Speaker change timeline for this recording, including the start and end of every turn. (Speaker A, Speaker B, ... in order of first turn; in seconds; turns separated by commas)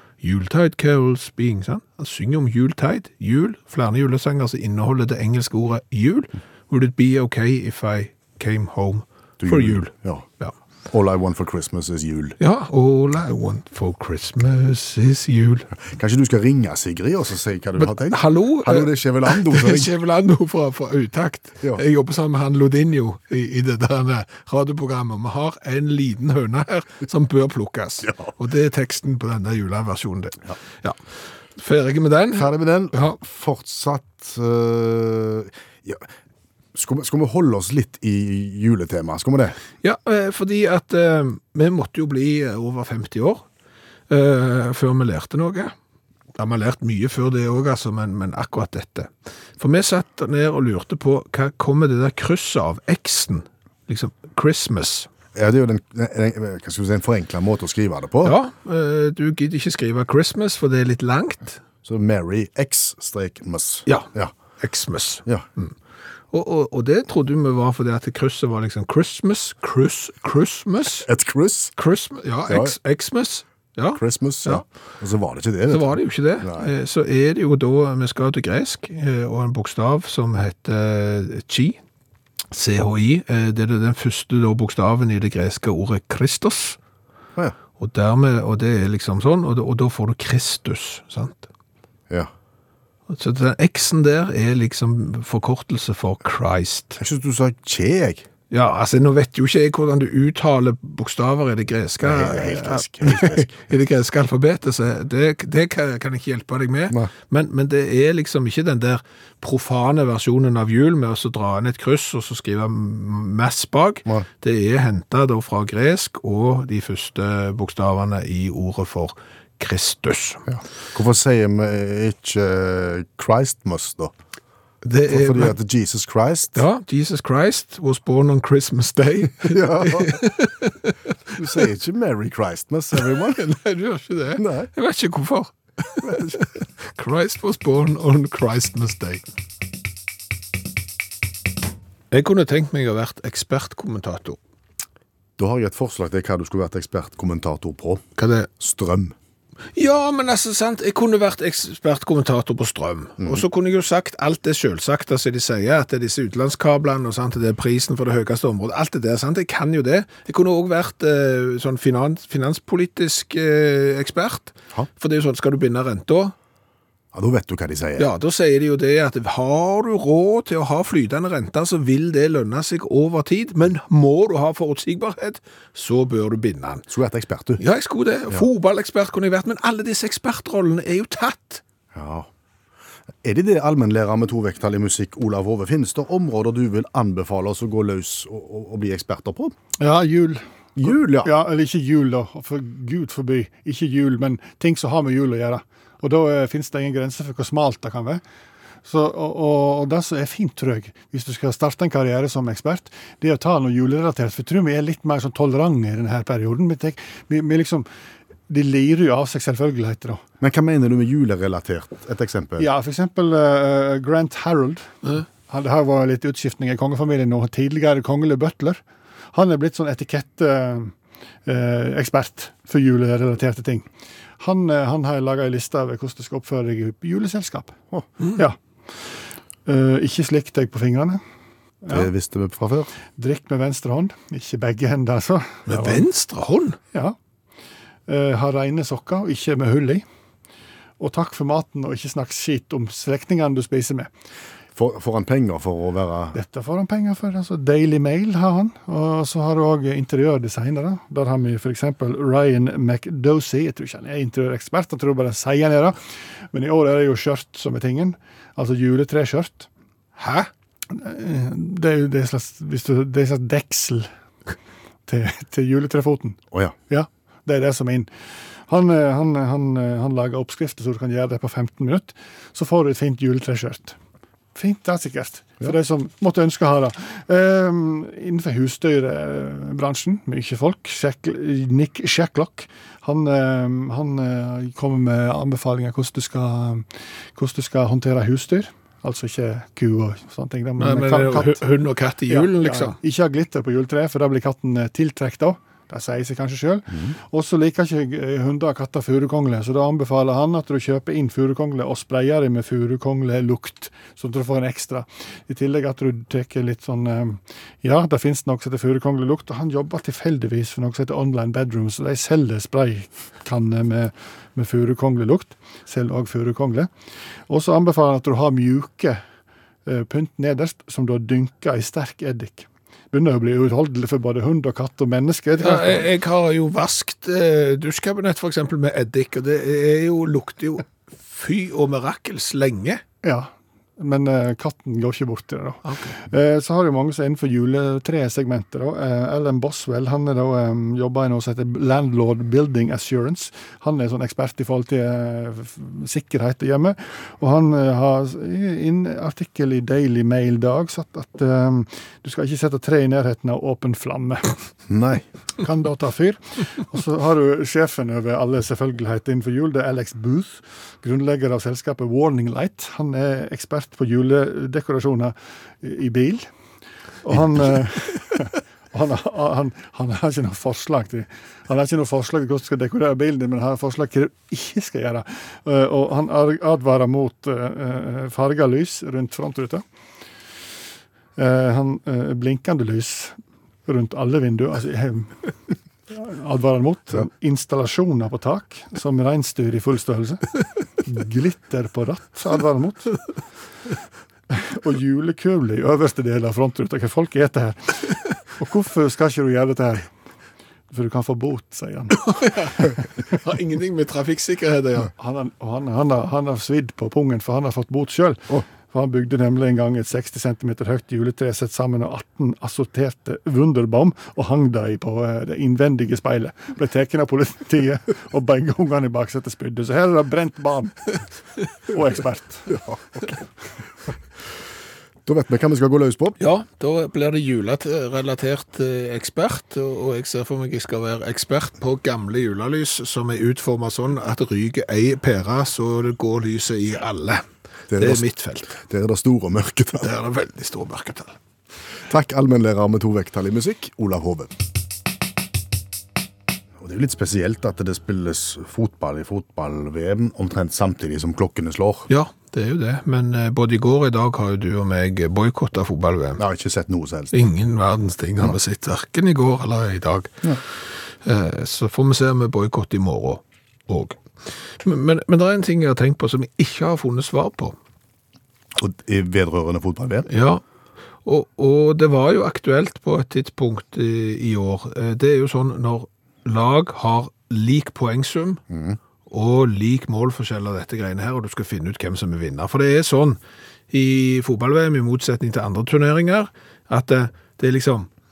Speaker A: 0.2-10.5, Speaker B: 9.4-10.3, Speaker B: 10.9-12.4, Speaker A: 12.4-15.7, Speaker B: 15.8-19.9, Speaker A: 17.8-31.0, Speaker B: 28.0-28.3, Speaker A: 31.6-33.2, Speaker B: 32.3-36.1, Speaker B: 36.7-39.6, Speaker A: 39.8-43.4, Speaker A: 44.1-45.7, Speaker A: 46.4-55.1, Speaker B: 55.3-58.4, Speaker A: 58.2-61.6, Speaker B: 61.8-64.3, Speaker A: 63.9-65.7, Speaker A: 66.3-71.1, Speaker B: 71.0-71.8, Speaker A: 71.8-74.6, Speaker B: 72.5-72.8, Speaker B: 73.9-76.7, Speaker A: 75.7-81.8, Speaker A: 82.5-86.8, Speaker A: 87.8-91.5, Speaker A: 93.1-97.0, Speaker B: 97.0-98.2, Speaker A: 98.5-120.5, Speaker B: 102.0-103.5, Speaker B: 120.5-124.1, Speaker A: 124.8-125.6, Speaker B: 125.1-126.6, Speaker A: 126.5-131.4, Speaker B: 129.4-130.2, Speaker B: 131.3-133.4, Speaker A: 132.9-139.2, Speaker B: 134.4-134.7, Speaker B: 136.0-136.4, Speaker A: 142.1-144.4, Speaker B: 145.4-148.0, Speaker A: 148.2-148.5, Speaker B: 148.6-149.2, Speaker A: 149.8-166.3, Speaker B: 167.1-168.1, Speaker A: 168.0-176.9, Speaker B: 176.9-177.6, Speaker A: 177.6-181.6, Speaker B: 181.9-182.3, Speaker B: 183.2-189.5, Speaker C: 189.8-190.4, Speaker B: 190.8-191.3, Speaker C: 191.2-198.2, Speaker C: 198.8-207.9, Speaker C: 208.5-210.2, Speaker B: 210.4-212.7, Speaker C: 212.6-218.8, Speaker C: 219.3-220.9, Speaker C: 221.5-223.9, Speaker C: 224.4-227.8, Speaker C: 228.4-229.1, Speaker C: 229.7-231.2, Speaker C: 231.8-232.1, Speaker B: 231.9-232.9, Speaker C: 233.2-236.1, Speaker A: 235.7-236.8, Speaker C: 238.1-240.0, Speaker C: 241.0-244.1, Speaker B: 244.8-246.4, Speaker C: 246.3-256.0, Speaker C: 256.5-259.7, Speaker A: 260.2-260.5, Speaker C: 260.9-264.1, Speaker C: 265.1-268.1, Speaker C: 268.7-274.0, Speaker C: 274.6-291.6, Speaker A: 290.8-293.0, Speaker C: 292.3-316.9, Speaker C: 317.5-319.2, Speaker C: 319.9-326.1, Speaker A: 325.6-333.0, Speaker C: 333.2-354.6, Speaker A: 335.9-336.1, Speaker B: 354.9-355.2, Speaker C: 355.6-366.5, Speaker C: 367.2-379.8, Speaker C: 381.4-383.4, Speaker C: 383.9-385.4, Speaker C: 386.1-393.2, Speaker C: 394.5-400.1, Speaker C: 400.9-402.9, Speaker A: 402.2-405.1, Speaker C: 405.2-421.2, Speaker C: 421.9-422.7, Speaker B: 422.7-423.2, Speaker B: 425.3-426.4, Speaker A: 426.4-437.4, Speaker B: 437.9-440.1, Speaker A: 437.9-438.8, Speaker A: 440.0-441.4, Speaker B: 442.1-444.5, Speaker B: 446.8-452.1, Speaker A: 452.1-456.4, Speaker B: 456.4-457.4, Speaker A: 457.3-460.6, Speaker A: 461.2-464.2, Speaker A: 464.8-467.8, Speaker B: 468.8-470.3, Speaker A: 470.3-470.6, Speaker A: 471.2-478.6, Speaker B: 478.7-479.0, Speaker A: 479.3-483.4, Speaker A: 483.9-488.1